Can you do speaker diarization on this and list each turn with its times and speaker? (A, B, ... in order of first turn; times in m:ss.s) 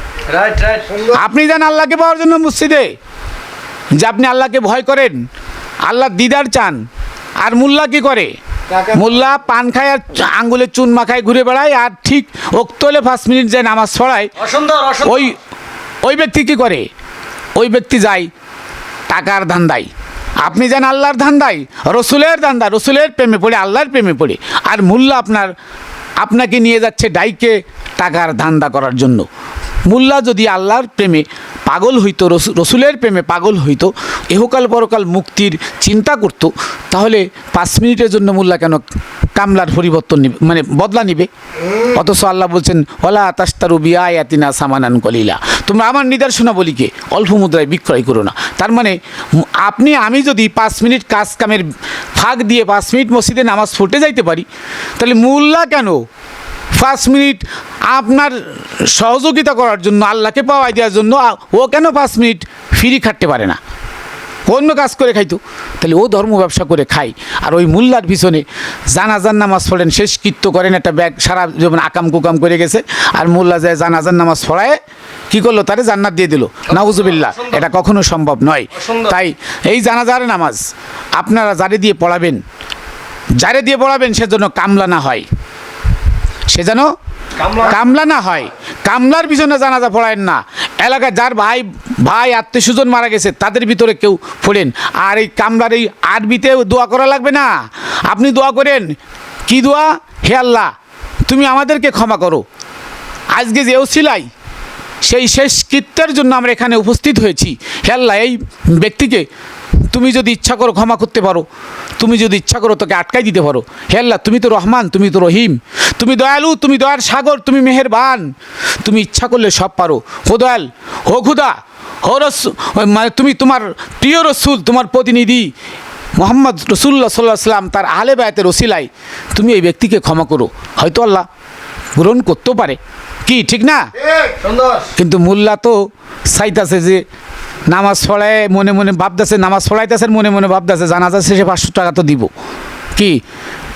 0:00.3-0:01.0 A
0:01.0-0:02.9 B
0:03.9-0:05.2 B
0:05.8-0:06.8 B
0:07.4-0:14.4 B
0:14.4-0:15.3 A
0:15.0-0:15.4 B
0:16.0-0:16.9 B
0:17.6-0:18.3 B
0:19.1-0:25.5 B
0:26.2-0:29.3 B
0:29.9-0:54.4 B
0:55.0-0:56.0 B
0:56.7-1:03.6 B
1:04.5-1:14.8 B
1:15.3-1:22.4 B
1:16.8-1:17.6 A
1:18.7-1:19.1 A
1:23.4-1:25.2 B
1:26.5-1:26.9 B
1:27.4-1:27.7 A
1:27.5-1:39.0 B
1:39.5-1:40.7 B
1:41.3-1:42.4 B
1:43.3-1:44.3 B
1:45.0-1:49.3 B
1:49.9-1:51.5 B
1:52.0-2:05.5 B
2:06.2-2:11.2 B
2:12.0-2:13.9 B
2:14.4-2:14.9 A
2:14.9-2:17.0 B
2:17.7-2:22.3 B
2:22.9-2:23.2 B